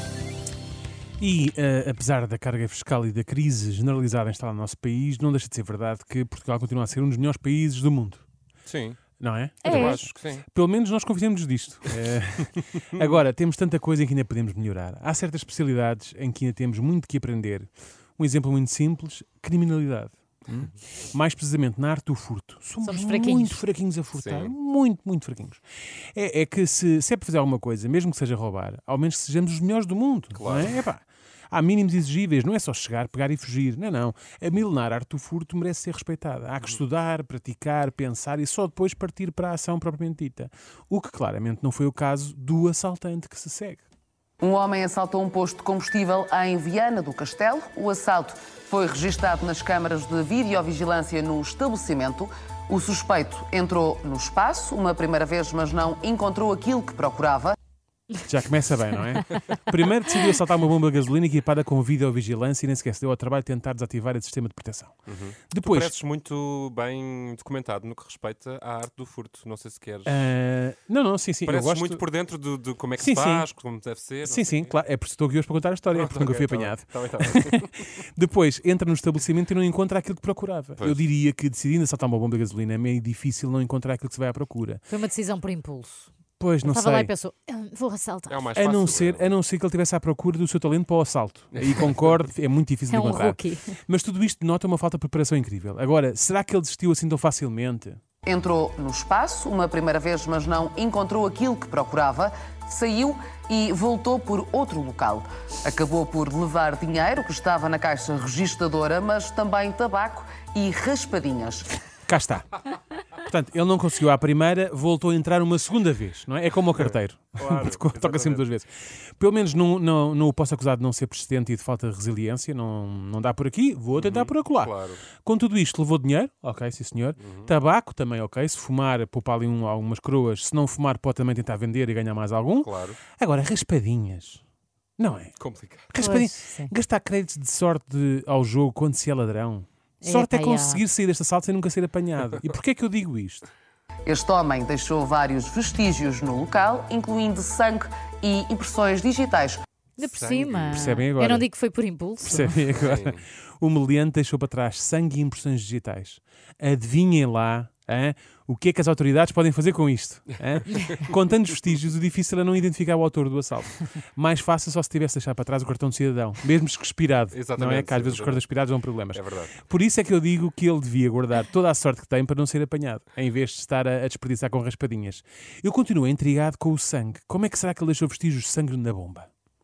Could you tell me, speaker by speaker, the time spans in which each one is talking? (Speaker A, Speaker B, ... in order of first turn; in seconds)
Speaker A: 1.2-8.2, 9.2-25.6, 26.1-43.8, 58.2-65.0, 65.5-66.0, 70.1-72.0, 73.0-73.5, 74.2-84.8, 86.4-87.1, 88.5-98.0, 112.1-112.5, 113.2-134.4, 135.0-135.3, 135.9-143.5, 150.7-151.5, 152.2-179.3
Speaker B: 8.7-9.0, 9.7-10.4, 24.1-24.5, 30.4-30.7, 65.1-70.3, 71.5-74.7, 75.9-77.8, 80.8-81.0, 88.3-89.3, 116.8-118.5, 124.0-125.0, 127.2-127.5, 132.6-133.0, 135.4-135.9, 150.0-151.0, 152.8-153.2, 167.3-168.4, 169.1-169.6
Speaker C: 9.6-10.0, 22.8-23.6, 84.9-86.1, 86.6-88.4, 92.9-93.7, 136.0-136.7, 140.0-140.8, 150.0-152.5
Speaker D: 44.4-57.6, 98.2-111.7, 144.1-149.6